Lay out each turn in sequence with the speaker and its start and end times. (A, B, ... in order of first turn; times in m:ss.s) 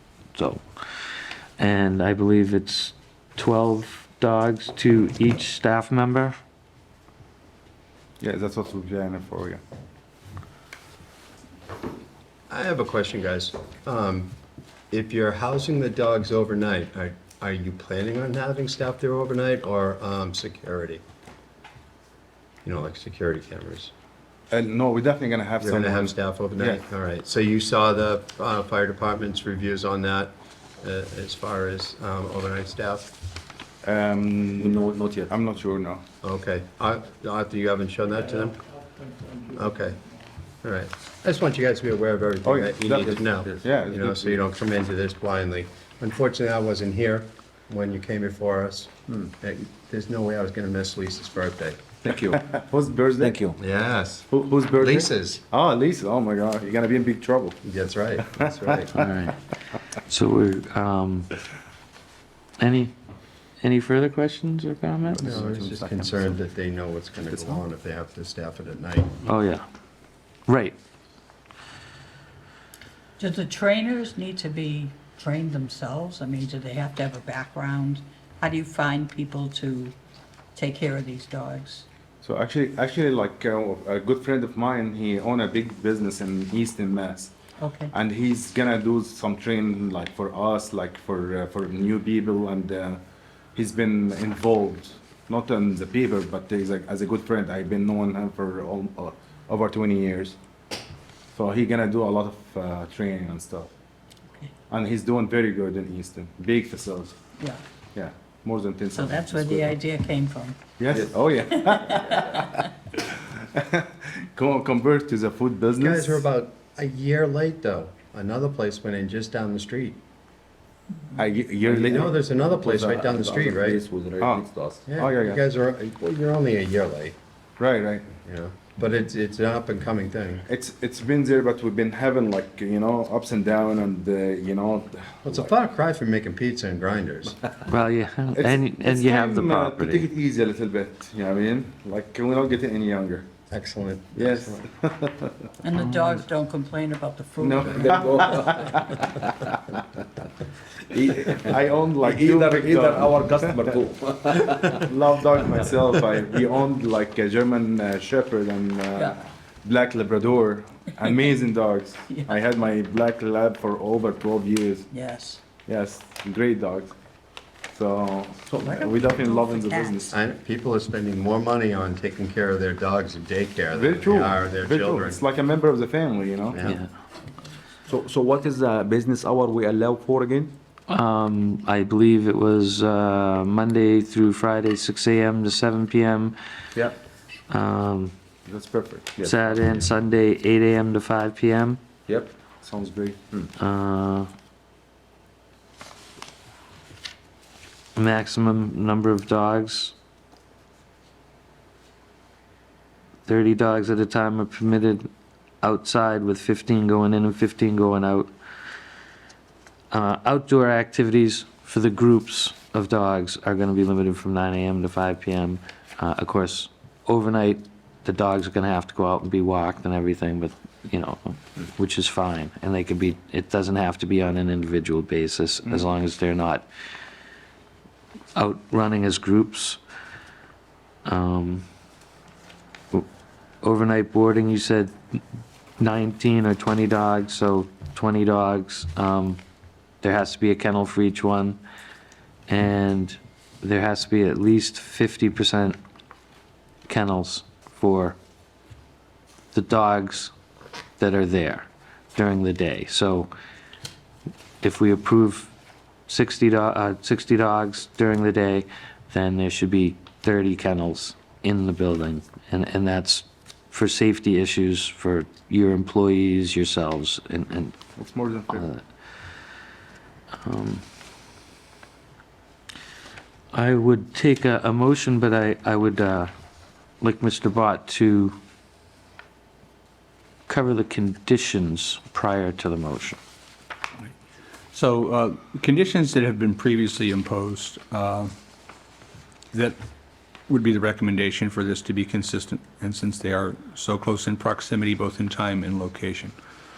0:00.3-0:00.6 A
0:01.6-0:06.4 A
0:08.2-0:09.6 B
0:12.5-0:14.3 C
0:14.9-0:21.0 C
0:22.6-0:23.9 C
0:24.5-0:26.8 B
0:25.6-0:33.1 C
0:33.8-0:36.0 B
0:34.6-0:35.3 D
0:36.2-0:38.6 C
0:39.4-0:40.0 C
0:40.6-0:51.8 C
0:42.4-0:44.4 B
0:43.1-0:43.7 D
0:52.0-0:52.4 D
0:52.1-0:53.4 B
0:53.2-0:53.6 D
0:53.6-0:55.4 C
0:54.3-0:57.6 B
0:57.6-0:59.0 C
0:58.9-0:59.4 A
1:00.0-1:01.3 A
1:02.6-1:02.9 A
1:03.6-1:05.3 A
1:05.2-1:09.1 C
1:05.2-1:06.3 B
1:09.2-1:09.6 A
1:10.5-1:10.7 A
1:13.2-1:19.9 E
1:20.5-1:21.8 E
1:22.2-1:27.3 B
1:27.6-1:27.9 E
1:27.9-1:33.0 B
1:33.5-1:40.4 B
1:41.3-1:43.7 B
1:44.7-1:47.1 B
1:47.9-1:49.7 B
1:48.9-1:50.6 E
1:50.8-1:56.2 B
1:51.7-1:52.4 E
1:55.8-2:00.0 C
2:01.2-2:02.1 B
2:01.7-2:03.8 C
2:01.8-2:04.9 D
2:04.2-2:05.4 B
2:04.9-2:07.2 C
2:07.6-2:08.1 B
2:08.1-2:10.4 C
2:10.5-2:15.5 B
2:15.2-2:17.4 C
2:17.6-2:20.1 A
2:18.3-2:23.3 B
2:23.5-2:24.6 C
2:24.2-2:25.5 B
2:25.6-2:28.9 E
2:27.4-2:28.8 B
2:27.8-2:29.3 D
2:30.9-2:35.7 D
2:31.0-2:33.8 B
2:34.5-2:44.9 B
2:44.9-2:45.4 E
2:45.7-2:46.9 B
2:47.7-2:50.1 B
2:48.5-2:50.1 E
2:50.1-2:55.2 C
2:53.7-2:56.6 B
2:56.5-2:56.8 C
2:57.9-3:00.5 D
3:00.9-3:06.4 A
3:07.5-3:08.1 A
3:08.4-3:09.2 B
3:09.2-3:09.5 D
3:09.2-3:11.8 A
3:12.1-3:12.3 D
3:12.6-3:13.2 B
3:13.6-3:14.3 A
3:18.0-3:19.9 A
3:23.2-3:25.1 A
3:25.6-3:28.3 A
3:29.9-3:46.6 A
3:48.4-3:49.8 A
3:51.0-3:51.6 A
3:53.6-3:55.2 A
3:55.8-3:59.4 A
4:00.0-4:01.6 A
4:02.5-4:05.8 A
4:06.9-4:08.2 A
4:09.5-4:10.3 A
4:11.0-4:13.3 A
4:14.6-4:15.5 A
4:16.1-4:27.8 A
4:28.0-4:28.6 B
4:28.5-4:28.8 A
4:30.4-4:30.8 A
4:33.5-4:36.3 A
4:37.0-4:38.4 A
4:40.5-4:43.2 A
4:44.7-4:48.3 F
4:49.5-4:49.8 F
4:50.5-4:56.3 F